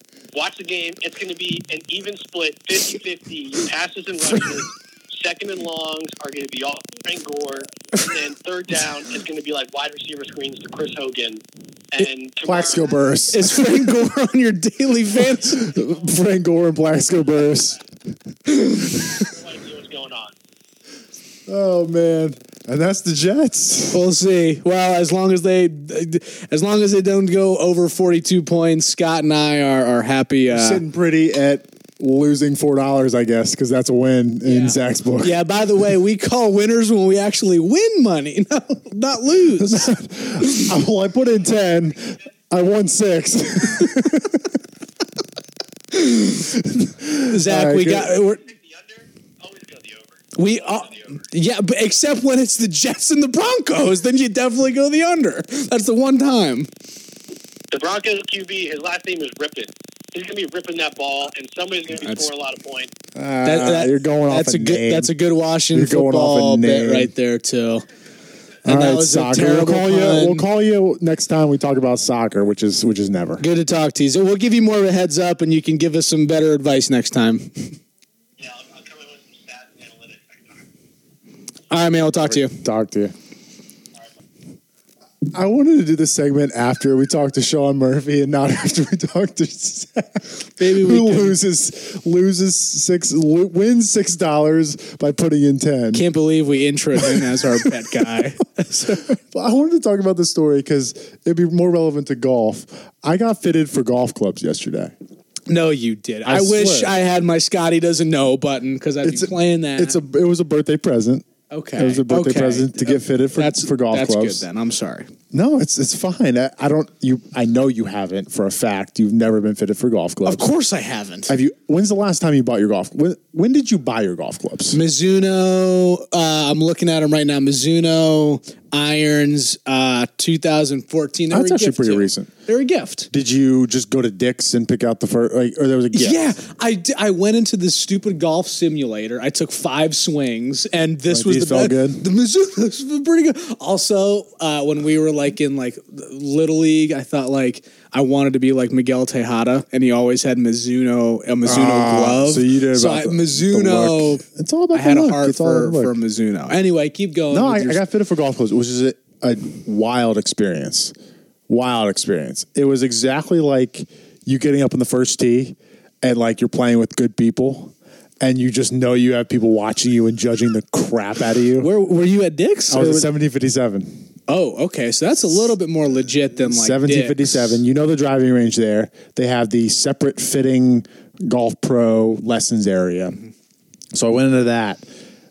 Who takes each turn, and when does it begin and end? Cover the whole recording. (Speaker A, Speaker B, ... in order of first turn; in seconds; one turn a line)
Speaker A: 0.3-13.0
Speaker B: 12.4-13.8
Speaker C: 13.3-15.7
Speaker B: 15.3-17.8
Speaker C: 18.5-19.1
Speaker A: 18.8-20.3
Speaker B: 21.5-24.0
Speaker C: 23.9-30.8
Speaker B: 30.5-35.4
Speaker C: 34.5-40.7
Speaker B: 39.5-44.5
Speaker C: 46.0-46.3
Speaker B: 46.4-48.1
Speaker C: 47.2-48.5
Speaker A: 48.5-51.1
Speaker C: 50.3-56.7
Speaker A: 57.7-62.9
Speaker B: 63.1-65.1
Speaker C: 63.4-67.9
Speaker B: 65.7-67.1
Speaker C: 68.6-70.5
Speaker B: 68.6-73.5
Speaker C: 73.4-77.7
Speaker A: 78.4-80.6
Speaker C: 81.7-82.6
Speaker B: 82.2-83.1
Speaker B: 85.3-96.0
Speaker C: 90.6-91.4
Speaker C: 95.9-99.2
Speaker B: 99.2-104.9
Speaker C: 105.5-110.0
Speaker B: 106.2-106.9
Speaker B: 109.0-114.4
Speaker C: 111.5-115.1
Speaker B: 115.3-120.5
Speaker C: 120.2-121.3
Speaker B: 121.3-124.8
Speaker C: 124.7-133.1
Speaker B: 131.3-132.3
Speaker B: 133.1-136.3
Speaker C: 135.9-157.8
Speaker B: 141.1-142.0
Speaker B: 151.4-155.9
Speaker B: 157.3-160.9
Speaker B: 161.5-171.7
Speaker C: 171.6-173.1
Speaker B: 172.7-174.1
Speaker C: 174.3-177.5
Speaker B: 176.5-183.2
Speaker B: 183.9-184.8